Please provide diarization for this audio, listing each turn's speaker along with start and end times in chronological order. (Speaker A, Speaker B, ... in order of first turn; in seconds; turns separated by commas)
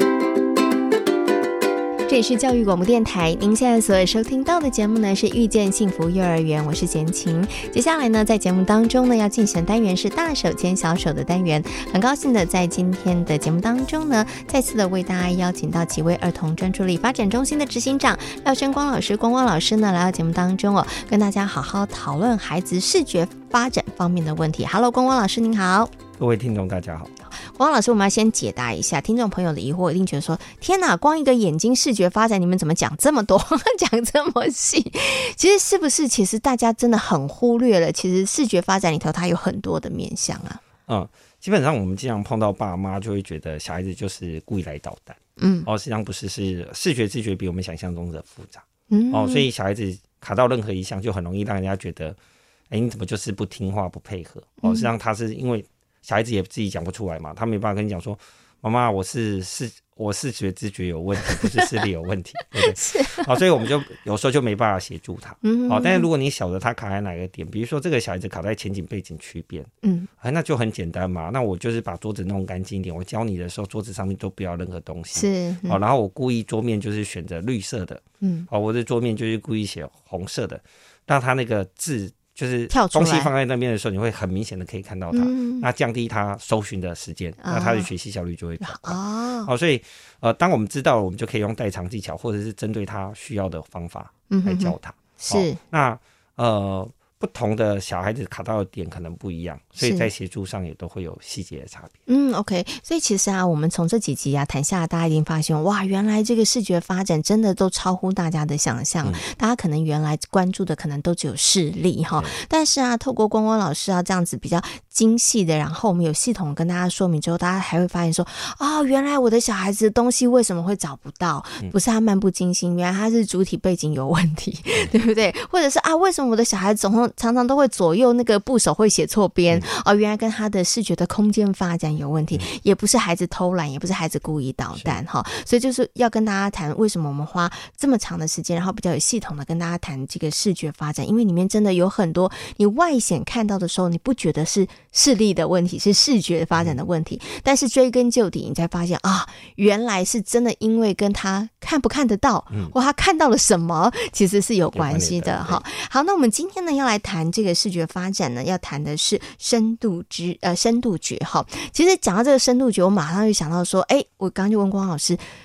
Speaker A: 2.1-25.9, Speaker B: 26.2-27.1, Speaker A: 27.5-40.6, Speaker B: 40.9-52.2, Speaker A: 45.4-45.7, Speaker A: 48.9-49.5, Speaker B: 52.7-102.0, Speaker A: 54.6-54.9, Speaker A: 61.2-61.7, Speaker A: 62.4-63.3, Speaker A: 65.4-66.1, Speaker A: 69.8-70.1, Speaker A: 75.1-75.8, Speaker A: 78.2-78.5, Speaker A: 82.7-83.3, Speaker A: 85.1-85.7, Speaker A: 87.4-87.9, Speaker A: 88.6-89.5, Speaker A: 94.3-95.6, Speaker A: 99.8-100.1, Speaker A: 102.1-165.2, Speaker B: 154.7-155.6